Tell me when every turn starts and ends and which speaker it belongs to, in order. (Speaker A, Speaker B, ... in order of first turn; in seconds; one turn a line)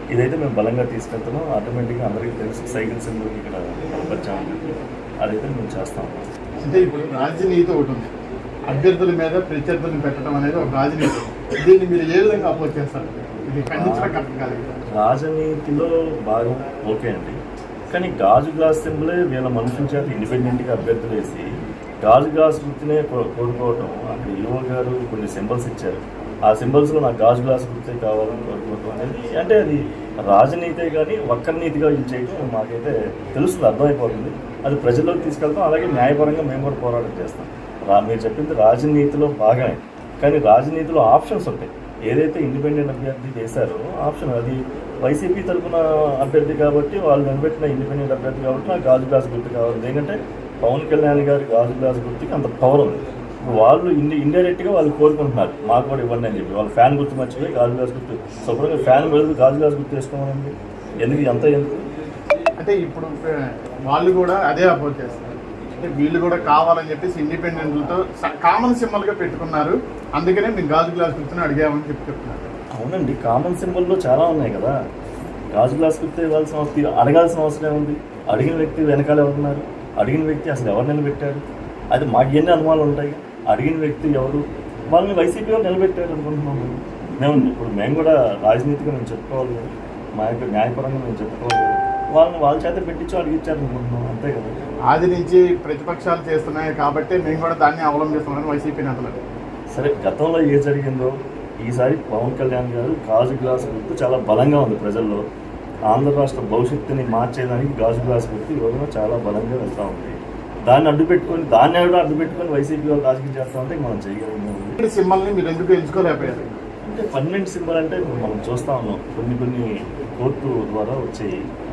Speaker A: 0.1-4.6
Speaker A: 5.2-6.2
Speaker B: 6.6-8.1
Speaker B: 8.7-14.6
Speaker A: 13.7-14.1
Speaker A: 14.9-17.4
Speaker A: 17.9-21.4
Speaker A: 22.0-29.8
Speaker A: 30.3-61.8
Speaker B: 62.6-63.1
Speaker B: 63.9-72.5
Speaker A: 72.8-74.7
Speaker A: 75.5-81.4
Speaker A: 81.9-94.5
Speaker B: 94.9-99.1
Speaker A: 99.7-101.1
Speaker A: 101.7-105.2
Speaker A: 105.9-110.1
Speaker A: 110.7-114.8
Speaker B: 114.8-116.5
Speaker A: 116.9-119.6
Speaker A: 120.2-121.3